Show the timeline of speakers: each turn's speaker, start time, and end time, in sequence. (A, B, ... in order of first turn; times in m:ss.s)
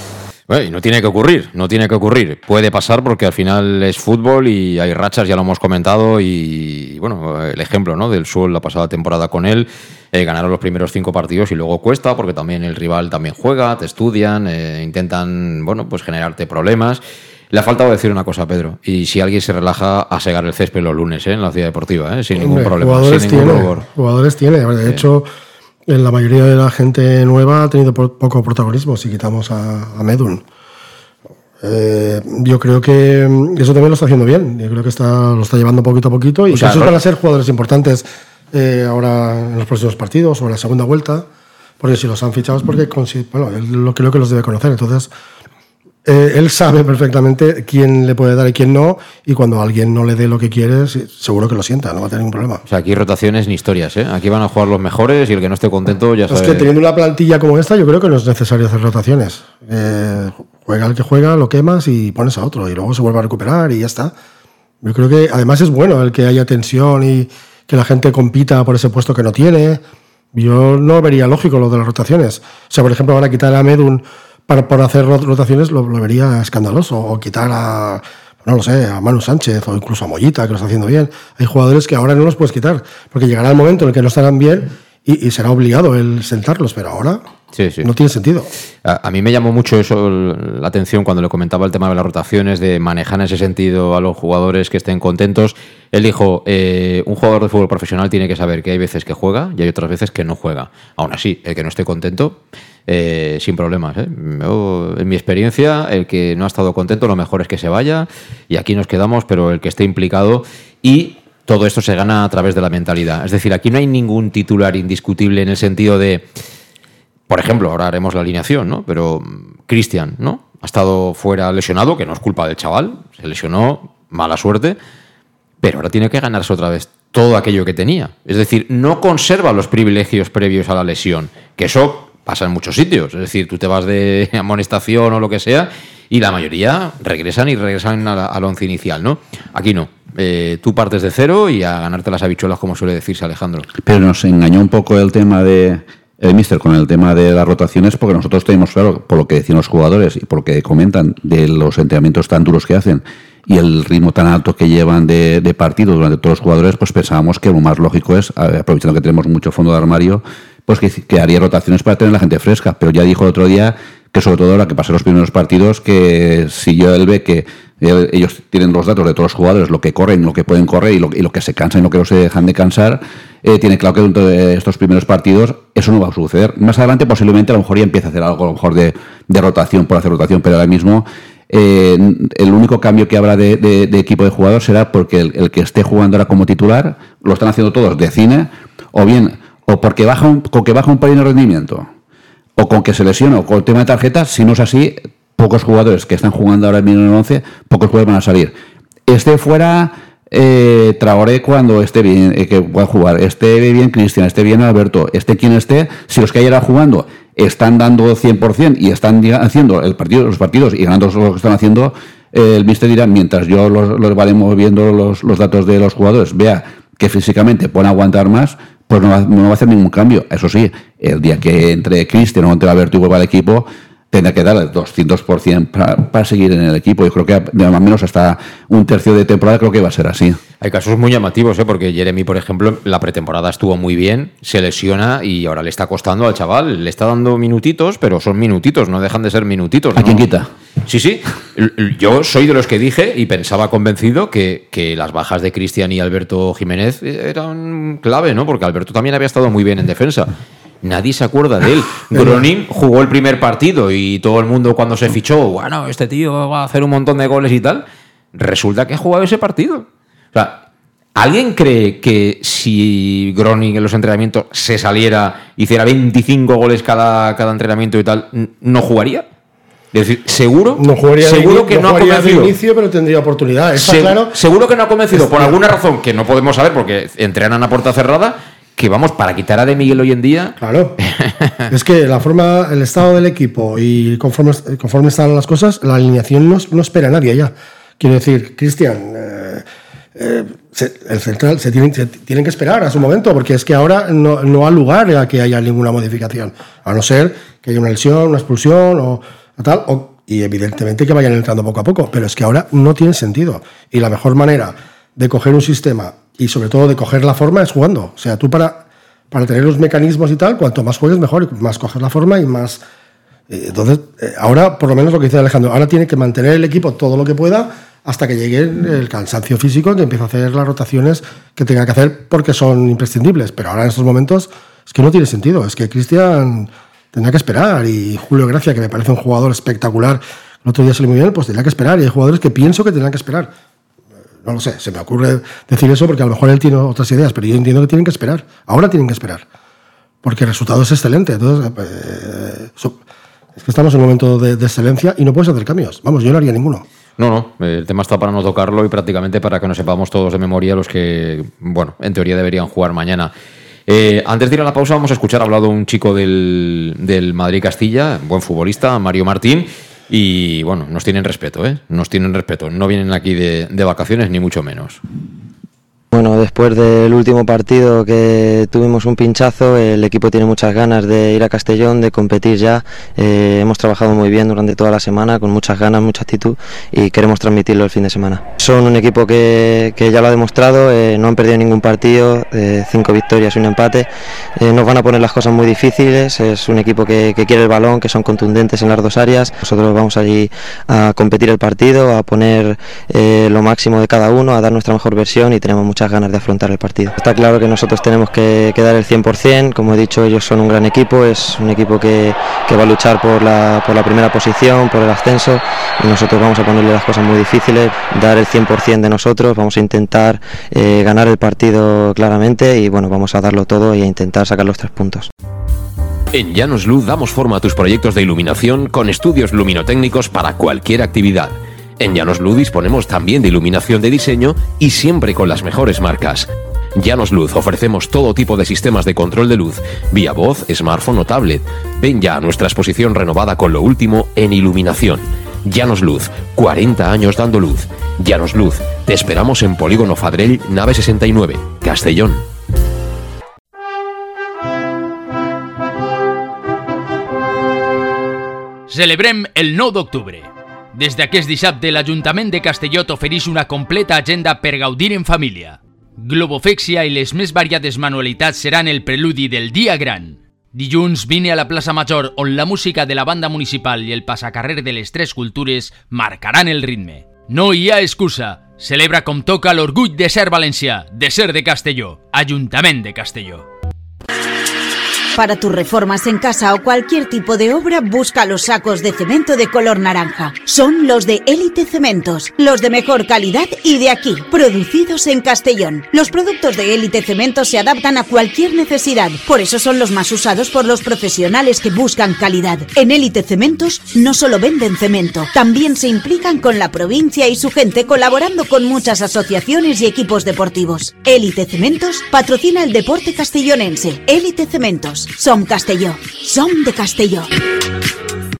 0:00.5-0:17.0 A
0:17.5-0:23.8 A
0:22.4-0:25.3 B
0:25.9-0:30.4 B
0:31.6-0:41.2 B
0:36.5-0:37.0 A
0:41.8-0:45.1 B
0:46.0-0:52.6 B
0:52.7-0:56.7 A
0:56.3-1:04.1 B
1:04.8-1:09.8 B
1:10.3-1:27.2 B
1:27.6-1:27.9 A
1:27.8-1:28.5 B
1:28.8-1:56.2 A
1:57.3-2:04.8 A
2:05.6-2:23.7 A
2:23.8-3:11.9 C
3:12.6-3:18.6 C
3:19.1-3:50.4 C
3:50.6-4:00.2 A
4:00.0-4:00.5 C
4:00.9-4:10.3 A
4:10.8-4:20.6 A
4:21.2-4:29.2 A
4:29.9-4:32.5 A
4:30.8-4:34.3 B
4:33.8-4:41.5 A
4:35.1-4:35.6 B
4:40.6-4:41.0 B
4:41.7-4:49.6 B
4:50.2-5:12.8 B
5:13.5-5:33.5 B
5:34.4-5:39.4 B
5:40.2-5:43.0 B
5:43.6-5:46.8 B
5:47.2-5:53.3 A
5:53.9-6:05.0 A
6:06.1-6:55.3 D
6:56.3-7:22.4 E
7:28.9-7:53.7 F
7:55.4-8:27.5 G